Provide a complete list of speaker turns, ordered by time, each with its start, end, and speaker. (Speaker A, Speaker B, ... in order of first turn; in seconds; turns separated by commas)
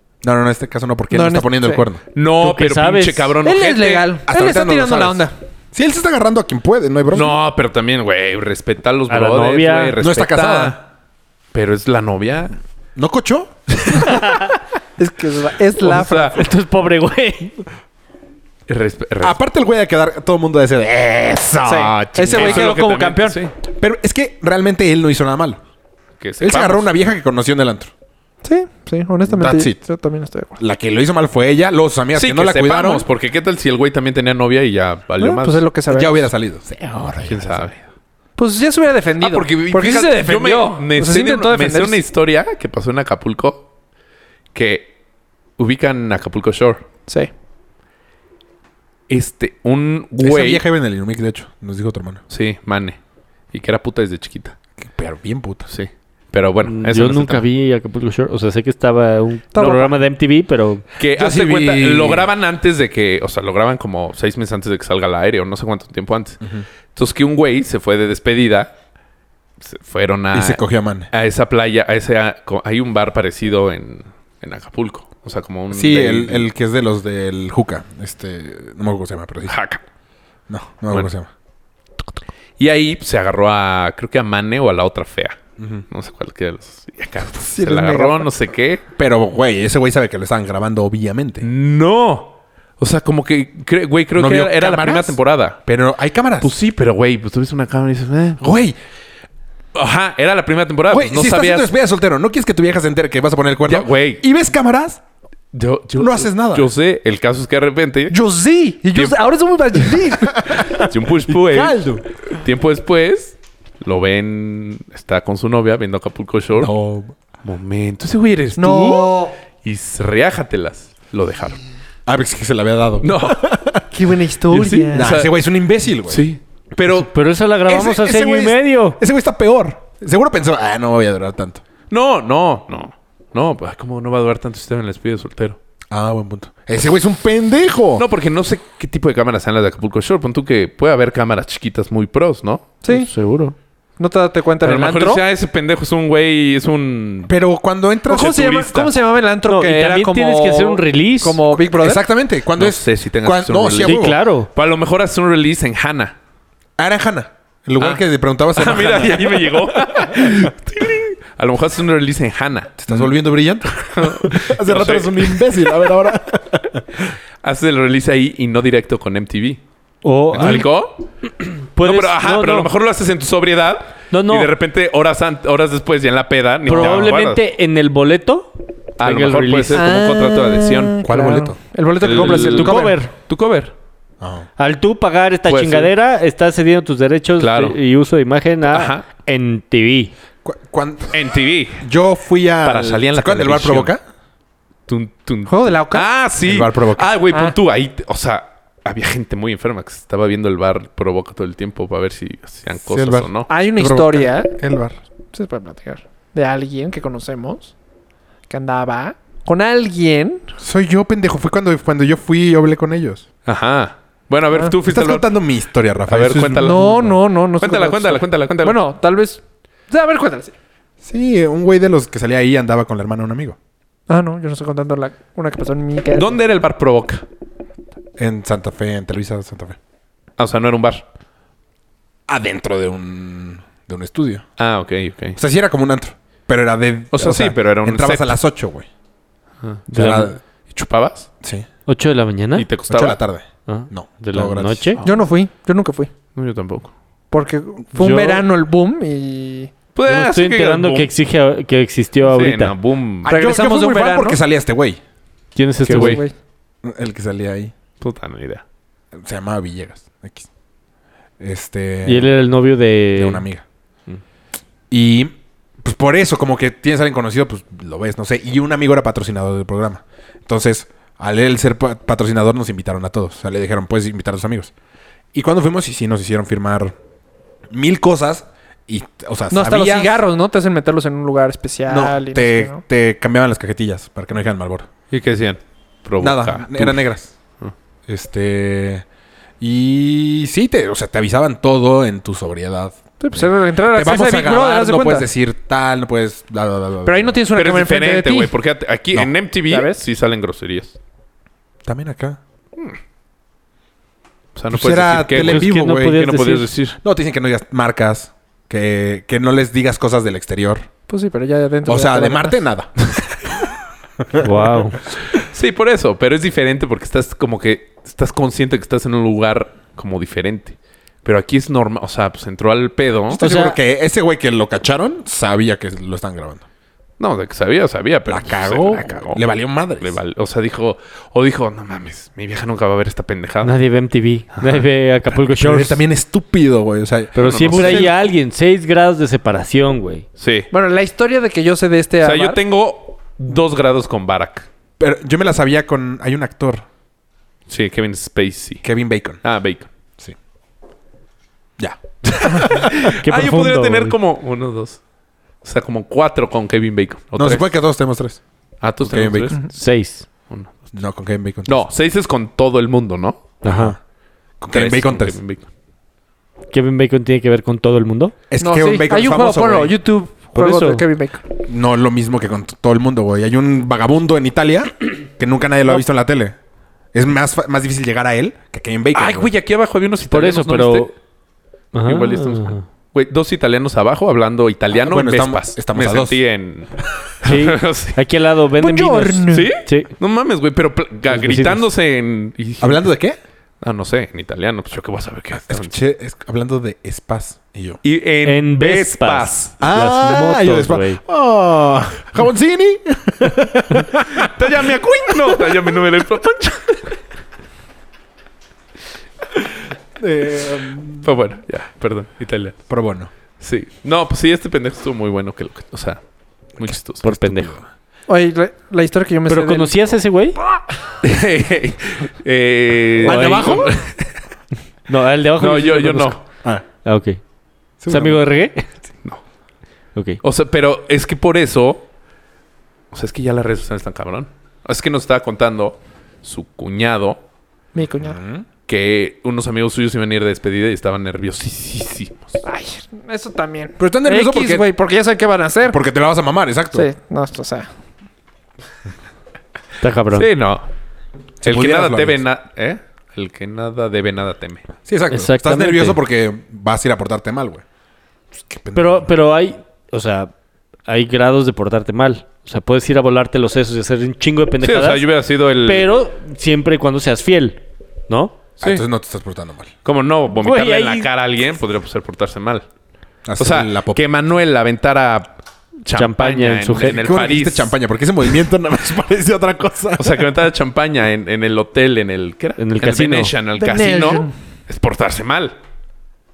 Speaker A: 0.2-2.0, Speaker B: 1.1-1.9, Speaker C: 2.1-4.1, Speaker D: 2.4-3.4, Speaker B: 3.4-5.3, Speaker A: 4.3-7.4, Speaker C: 7.1-10.8, Speaker D: 9.1-9.9, Speaker A: 10.0-10.8, Speaker C: 11.5-12.6, Speaker A: 13.0-13.5, Speaker B: 15.0-16.5, Speaker C: 15.8-16.4, Speaker D: 16.4-17.7, Speaker C: 18.7-19.4, Speaker A: 19.2-22.7, Speaker B: 21.6-23.4, Speaker C: 21.7-23.5, Speaker A: 23.7-25.6, Speaker C: 26.2-26.9, Speaker A: 26.4-27.9, Speaker B: 28.4-30.6, Speaker A: 29.2-29.8, Speaker A: 30.6-33.1, Speaker C: 32.1-35.6, Speaker B: 35.2-36.3, Speaker A: 35.9-37.7, Speaker C: 37.2-37.8, Speaker B: 38.4-42.0, Speaker C: 39.2-43.7, Speaker C: 44.5-44.9, Speaker C: 45.6-46.8, Speaker C: 49.1-50.6, Speaker A: 50.2-52.2, Speaker C: 52.3-53.0, Speaker C: 53.5-54.6, Speaker A: 54.8-55.7, Speaker C: 55.7-57.4, Speaker D: 56.7-60.8, Speaker B: 59.5-59.9, Speaker C: 61.0-66.4, Speaker A: 61.1-62.3, Speaker A: 66.4-66.7, Speaker C: 66.9-68.7, Speaker C: 69.6-76.5, Speaker A: 70.3-71.1, Speaker A: 75.7-79.6, Speaker C: 79.5-79.8, Speaker A: 80.5-81.3, Speaker C: 82.6-85.4, Speaker A: 85.6-85.9, Speaker C: 85.9-88.8, Speaker B: 87.6-88.3, Speaker A: 89.0-91.5, Speaker C: 91.4-95.6, Speaker A: 94.2-96.5, Speaker C: 96.4-98.4, Speaker A: 98.4-98.8, Speaker C: 99.7-101.7, Speaker A: 100.9-105.0, Speaker C: 103.7-104.2, Speaker C: 105.5-108.2, Speaker A: 106.0-106.7, Speaker B: 108.1-110.9, Speaker C: 109.7-110.0, Speaker C: 110.7-116.7, Speaker A: 111.3-112.1, Speaker A: 116.6-117.2, Speaker C: 117.4-121.6, Speaker B: 118.6-119.3, Speaker A: 122.1-123.8, Speaker C: 123.0-123.4, Speaker B: 123.9-125.1, Speaker C: 124.5-125.3, Speaker A: 124.9-126.3, Speaker C: 126.1-127.1, Speaker D: 126.9-129.0, Speaker A: 127.7-131.6, Speaker C: 131.9-135.6, Speaker A: 135.9-138.1, Speaker C: 138.0-142.8, Speaker B: 142.8-143.1, Speaker D: 142.9-143.6, Speaker B: 144.0-145.2, Speaker C: 144.6-147.3, Speaker A: 147.3-148.4, Speaker B: 148.1-152.1, Speaker C: 148.1-149.0, Speaker D: 149.5-151.4, Speaker A: 151.6-154.2, Speaker C: 152.6-156.2, Speaker D: 153.8-154.5, Speaker A: 156.8-160.5, Speaker C: 157.8-158.0, Speaker C: 158.6-163.1, Speaker A: 162.8-166.8, Speaker C: 163.8-165.9, Speaker C: 167.4-169.6, Speaker D: 170.0-170.7, Speaker C: 170.3-171.1, Speaker D: 171.8-172.7, Speaker C: 171.8-177.4, Speaker D: 174.1-174.5, Speaker D: 176.7-179.9, Speaker A: 176.7-177.2, Speaker C: 179.0-181.1, Speaker B: 179.7-183.0, Speaker A: 181.0-181.6, Speaker C: 182.0-183.7, Speaker D: 182.2-183.1, Speaker A: 184.2-184.5, Speaker D: 184.6-190.1, Speaker C: 185.5-185.9, Speaker C: 187.4-187.8, Speaker C: 188.7-189.1, Speaker A: 190.4-191.2, Speaker C: 191.1-191.8, Speaker A: 191.8-194.0, Speaker C: 192.6-193.9, Speaker C: 194.9-203.5, Speaker B: 195.5-196.1, Speaker A: 196.4-197.2, Speaker A: 202.8-205.0, Speaker B: 203.5-204.5, Speaker B: 205.3-207.7, Speaker B: 208.5-210.5, Speaker A: 210.6-213.3, Speaker C: 213.4-215.3, Speaker A: 214.8-217.1, Speaker C: 216.1-217.1, Speaker B: 216.6-220.5, Speaker C: 217.6-218.8, Speaker A: 221.0-223.6, Speaker B: 224.1-226.4, Speaker C: 226.2-227.2, Speaker A: 228.2-229.8, Speaker C: 230.4-231.0, Speaker A: 232.3-234.4, Speaker C: 234.6-235.4, Speaker A: 235.4-238.9, Speaker C: 237.1-238.3, Speaker D: 239.9-240.3, Speaker A: 239.9-240.4, Speaker C: 240.7-241.3, Speaker A: 241.4-241.7, Speaker D: 241.9-242.7, Speaker C: 242.6-243.2, Speaker A: 242.9-244.9, Speaker D: 243.7-245.0, Speaker C: 245.0-245.2, Speaker B: 245.0-246.1, Speaker C: 246.4-246.9, Speaker B: 247.3-249.7, Speaker D: 247.9-248.4, Speaker C: 249.9-251.1, Speaker D: 250.1-252.8, Speaker C: 252.2-253.3, Speaker A: 253.2-255.0, Speaker B: 253.3-254.4, Speaker D: 255.6-256.2, Speaker C: 255.9-256.2, Speaker B: 255.9-256.3, Speaker A: 256.8-257.7, Speaker C: 258.0-258.6, Speaker A: 259.1-260.5, Speaker A: 261.4-262.4, Speaker D: 262.1-263.5, Speaker A: 263.2-263.6, Speaker A: 264.9-274.7, Speaker A: 275.3-277.0, Speaker A: 277.7-280.2, Speaker B: 279.5-282.8, Speaker A: 281.9-284.9, Speaker C: 285.1-287.1, Speaker A: 286.2-287.3, Speaker A: 288.1-289.1, Speaker A: 289.6-297.4, Speaker B: 293.2-295.3, Speaker B: 297.0-298.5, Speaker C: 297.5-301.0, Speaker B: 299.7-300.1, Speaker A: 301.9-302.4, Speaker C: 304.6-307.0, Speaker A: 304.7-306.3, Speaker D: 305.4-306.7, Speaker A: 307.0-310.9, Speaker B: 311.1-312.6, Speaker A: 311.9-312.9, Speaker A: 314.2-314.8, Speaker D: 314.4-315.0, Speaker C: 315.3-323.4, Speaker A: 323.3-326.6, Speaker D: 323.4-323.7, Speaker C: 327.2-333.7, Speaker A: 328.3-330.2, Speaker D: 333.6-336.0, Speaker C: 334.6-334.9, Speaker A: 335.6-338.2, Speaker D: 337.4-340.2, Speaker C: 337.4-338.1, Speaker C: 340.4-340.7, Speaker B: 340.7-342.6, Speaker C: 342.2-344.7, Speaker A: 345.0-346.9, Speaker C: 347.7-348.8, Speaker A: 348.8-349.4, Speaker C: 349.4-349.9, Speaker A: 351.8-353.0, Speaker C: 352.3-355.0, Speaker D: 353.2-354.1, Speaker C: 355.6-357.7, Speaker A: 357.4-358.4, Speaker C: 358.8-359.6, Speaker A: 359.0-359.6, Speaker D: 359.7-360.2, Speaker C: 360.5-360.9, Speaker A: 360.9-361.9, Speaker C: 361.7-363.6, Speaker D: 363.6-364.0, Speaker A: 363.6-364.0, Speaker A: 364.6-365.4, Speaker C: 364.7-365.7, Speaker D: 366.7-368.4, Speaker A: 368.5-370.0, Speaker B: 368.6-371.4, Speaker D: 370.6-371.0, Speaker A: 371.7-376.6, Speaker A: 377.1-379.5, Speaker C: 379.1-381.1, Speaker D: 380.3-381.1, Speaker D: 381.9-382.8, Speaker C: 382.0-388.2, Speaker A: 384.9-386.4, Speaker D: 387.4-390.1, Speaker B: 388.8-389.7, Speaker C: 389.5-393.1, Speaker D: 391.3-391.9, Speaker A: 392.8-393.4, Speaker C: 393.8-396.0, Speaker A: 395.7-398.0, Speaker C: 398.0-399.7, Speaker D: 398.4-401.2, Speaker A: 399.8-404.5, Speaker C: 404.3-407.2, Speaker A: 410.2-411.3, Speaker C: 411.2-412.8, Speaker A: 412.9-413.3, Speaker C: 413.6-416.2, Speaker C: 416.8-417.3, Speaker A: 416.8-417.9, Speaker D: 417.2-417.7, Speaker B: 418.3-420.0, Speaker D: 419.5-420.6, Speaker C: 421.2-424.2, Speaker D: 423.2-423.9, Speaker A: 423.2-423.9, Speaker D: 425.1-426.4, Speaker C: 425.6-426.4, Speaker D: 427.1-427.4, Speaker A: 428.0-428.4, Speaker D: 428.1-428.9, Speaker D: 430.1-430.4, Speaker C: 430.4-432.1, Speaker C: 433.1-437.4, Speaker B: 437.9-438.4, Speaker A: 438.2-438.7, Speaker C: 438.9-442.6, Speaker B: 442.6-446.0, Speaker A: 444.0-444.9, Speaker A: 445.9-447.1, Speaker B: 446.9-447.9, Speaker D: 450.0-450.5, Speaker C: 450.3-450.9, Speaker C: 451.6-454.9, Speaker A: 451.6-452.4, Speaker A: 455.1-457.8, Speaker D: 455.3-456.2, Speaker A: 458.6-459.3, Speaker D: 458.9-460.5, Speaker D: 461.1-465.2, Speaker C: 464.8-466.1, Speaker D: 465.8-468.6, Speaker A: 468.8-469.9, Speaker C: 470.0-472.9, Speaker D: 470.5-471.3, Speaker A: 473.5-474.2, Speaker C: 473.6-477.9, Speaker D: 476.1-477.2, Speaker A: 477.1-480.4, Speaker C: 480.2-485.8, Speaker D: 482.8-483.5, Speaker B: 483.8-484.5